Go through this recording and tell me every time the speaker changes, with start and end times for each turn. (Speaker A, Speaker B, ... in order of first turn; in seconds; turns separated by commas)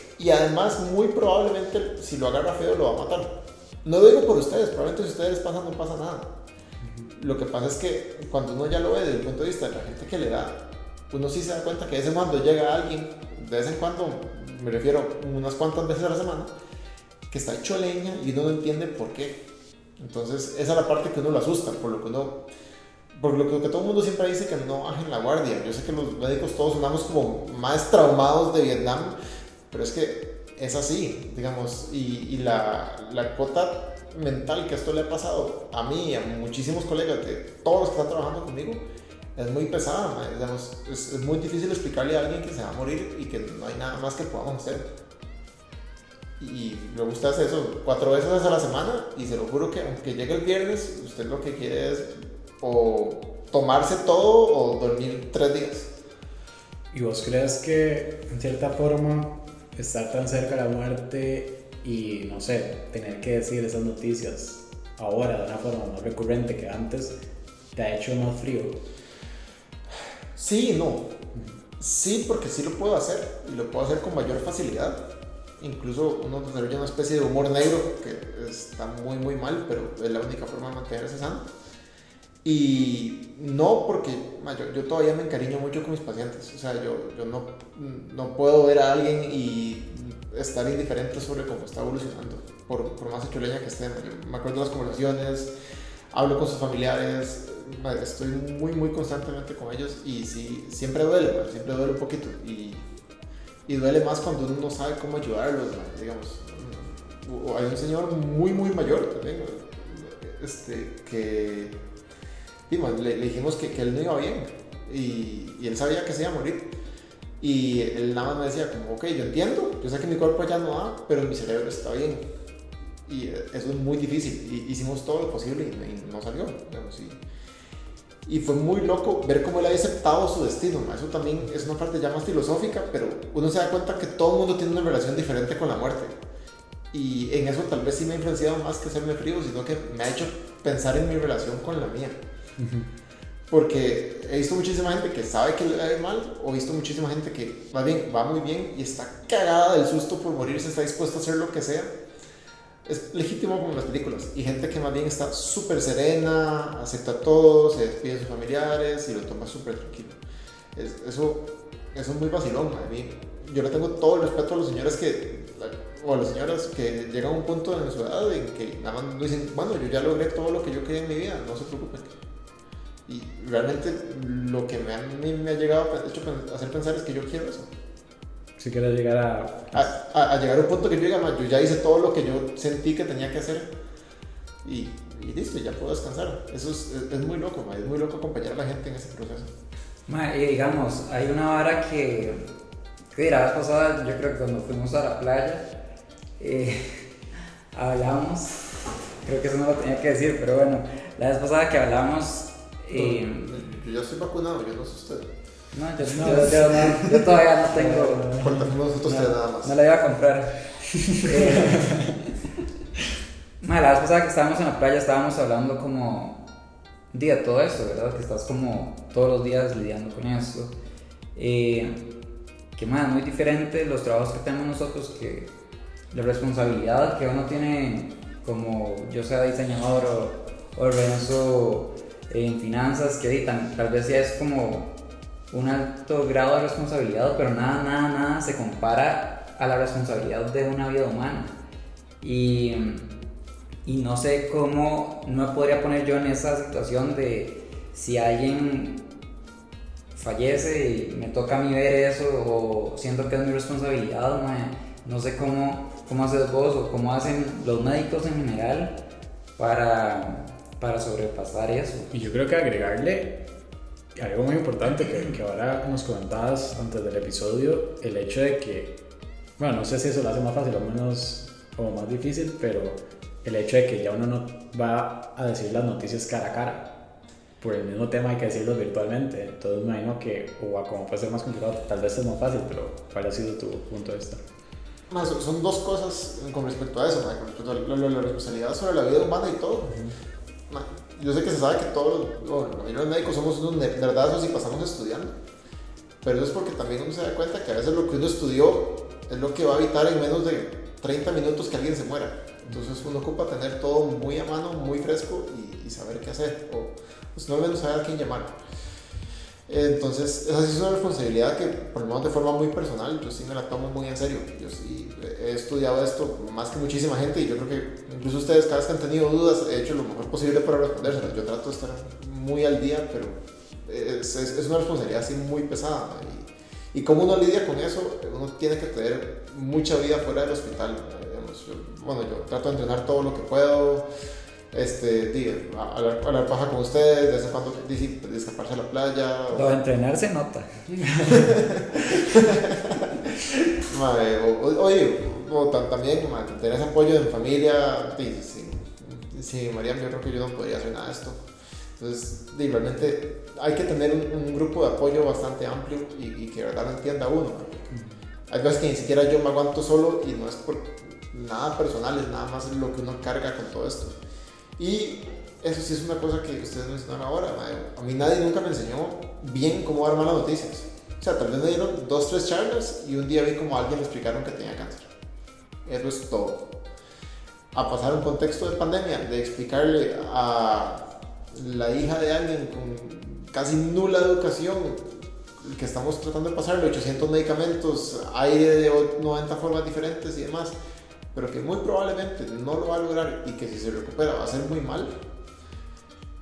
Speaker A: 0.2-6.3, Speaker A: 7.1-16.5, Speaker A: 17.3-19.4, Speaker A: 20.0-22.4, Speaker A: 23.1-29.1, Speaker A: 29.7-38.8, Speaker A: 39.4-44.9, Speaker A: 46.4-55.9, Speaker B: 56.9-67.2, Speaker B: 67.7-68.8, Speaker A: 70.3-71.1, Speaker A: 71.8-75.0, Speaker A: 75.6-81.5, Speaker A: 82.4-95.5, Speaker A: 96.1-102.8, Speaker A: 103.7-111.7, Speaker A: 112.7-116.7, Speaker A: 117.4-122.2, Speaker A: 123.0-127.2, Speaker A: 128.2-136.2, Speaker A: 136.9-142.2, Speaker B: 142.6-142.9, Speaker A: 143.5-151.9, Speaker A: 152.8-160.2, Speaker A: 160.7-172.1, Speaker A: 173.1-177.7, Speaker B: 178.6-179.9, Speaker A: 179.7-183.7, Speaker A: 184.6-189.5, Speaker C: 190.1-192.4, Speaker C: 193.1-195.7, Speaker C: 196.4-197.1, Speaker C: 197.7-198.6, Speaker C: 199.2-203.6, Speaker A: 203.1-205.3, Speaker C: 205.7-212.2, Speaker B: 206.0-207.1, Speaker A: 206.3-209.7, Speaker B: 207.9-208.6, Speaker C: 213.6-216.4, Speaker C: 217.1-220.7, Speaker C: 221.3-222.1, Speaker C: 222.8-225.5, Speaker C: 226.1-234.9, Speaker C: 235.5-241.6, Speaker C: 242.2-243.1, Speaker C: 243.8-249.1, Speaker C: 250.1-259.0, Speaker C: 259.6-262.1, Speaker B: 262.1-263.4, Speaker B: 264.1-268.9, Speaker B: 269.6-276.9, Speaker B: 277.6-284.4, Speaker A: 285.1-289.9, Speaker B: 289.9-290.1, Speaker A: 290.7-295.3, Speaker A: 296.2-308.5, Speaker A: 309.7-334.1, Speaker A: 334.7-339.8, Speaker C: 339.5-341.3, Speaker A: 341.3-351.4, Speaker A: 352.0-357.8, Speaker A: 358.5-364.2, Speaker A: 364.8-375.1, Speaker A: 375.9-376.6, Speaker A: 377.7-390.7, Speaker A: 391.3-395.1